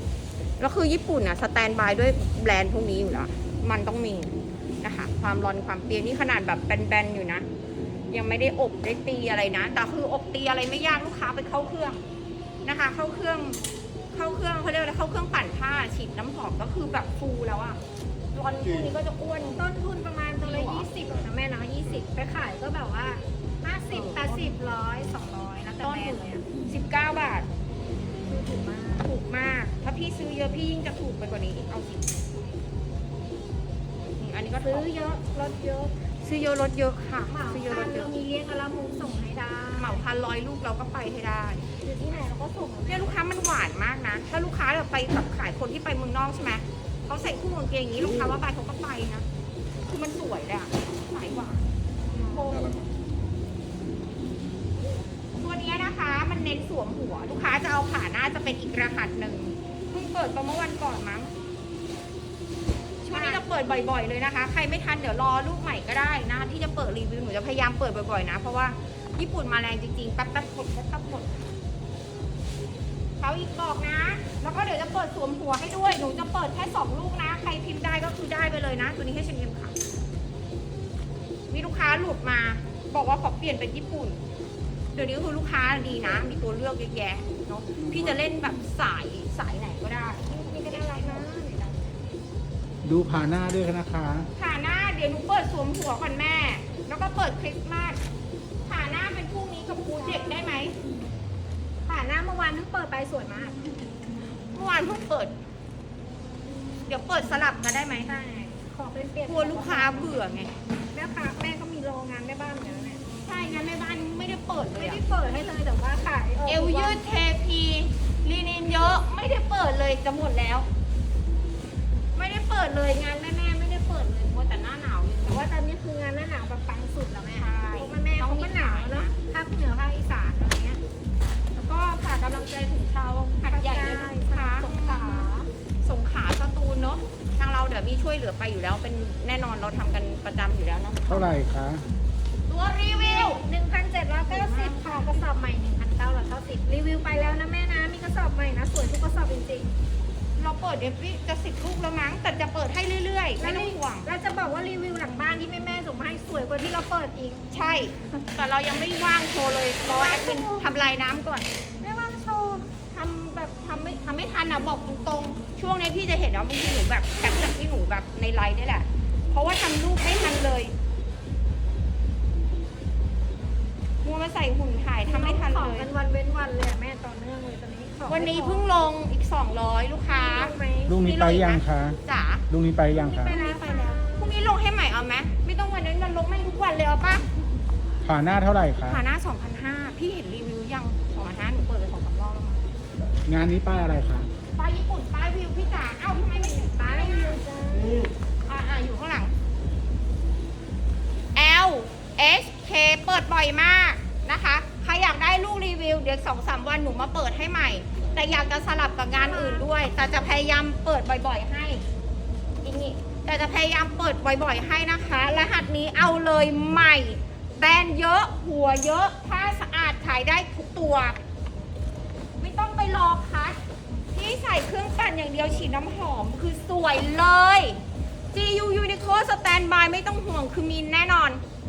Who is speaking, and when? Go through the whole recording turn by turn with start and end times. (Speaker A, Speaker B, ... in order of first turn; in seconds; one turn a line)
Speaker A: 0.6-7.5
Speaker A: 8.1-12.0
Speaker A: 12.6-13.6
Speaker A: 14.1-17.8
Speaker A: 18.3-19.6
Speaker B: 19.5-26.4
Speaker A: 20.4-20.9
Speaker A: 23.9-24.6
Speaker A: 25.8-27.5
Speaker B: 28.2-29.1
Speaker A: 29.0-32.2
Speaker A: 34.1-34.9
Speaker B: 34.7-35.9
Speaker A: 36.2-38.1
Speaker B: 37.3-40.0
Speaker A: 39.8-41.7
Speaker B: 41.8-43.2
Speaker A: 42.9-49.2
Speaker A: 49.9-52.8
Speaker B: 52.1-52.5
Speaker A: 55.4-61.3
Speaker A: 63.0-71.3
Speaker B: 63.1-63.4
Speaker A: 73.2-79.7
Speaker A: 81.5-84.2
Speaker A: 84.9-91.3
Speaker B: 90.2-91.8
Speaker C: 92.8-94.3
Speaker A: 94.4-98.0
Speaker A: 98.7-100.8
Speaker B: 100.0-100.4
Speaker B: 101.8-103.7
Speaker A: 104.5-105.3
Speaker A: 106.9-108.1
Speaker B: 108.0-110.1
Speaker A: 109.2-110.5
Speaker B: 110.9-113.1
Speaker A: 113.2-115.0
Speaker B: 114.7-117.0
Speaker A: 116.4-120.7
Speaker A: 122.2-125.5
Speaker B: 125.2-130.8
Speaker A: 127.3-129.1
Speaker A: 131.5-141.3
Speaker B: 133.5-135.5
Speaker C: 141.1-141.8
Speaker A: 142.5-143.4
Speaker B: 142.8-149.7
Speaker A: 144.3-145.2
Speaker A: 150.4-154.1
Speaker B: 153.4-157.5
Speaker A: 157.5-161.5
Speaker B: 159.8-160.6
Speaker B: 161.8-162.7
Speaker A: 162.9-170.7
Speaker A: 174.0-175.9
Speaker B: 175.0-178.7
Speaker A: 178.1-182.4
Speaker B: 180.1-181.0
Speaker C: 180.9-183.3
Speaker B: 182.9-184.5
Speaker A: 183.3-187.3
Speaker C: 188.0-189.0
Speaker A: 188.9-192.6
Speaker C: 193.2-194.3
Speaker A: 194.6-197.4
Speaker B: 196.1-198.1
Speaker A: 198.4-199.3
Speaker A: 201.3-211.8
Speaker B: 209.1-209.7
Speaker A: 212.6-221.2
Speaker A: 222.4-223.6
Speaker A: 224.1-227.8
Speaker A: 228.3-231.4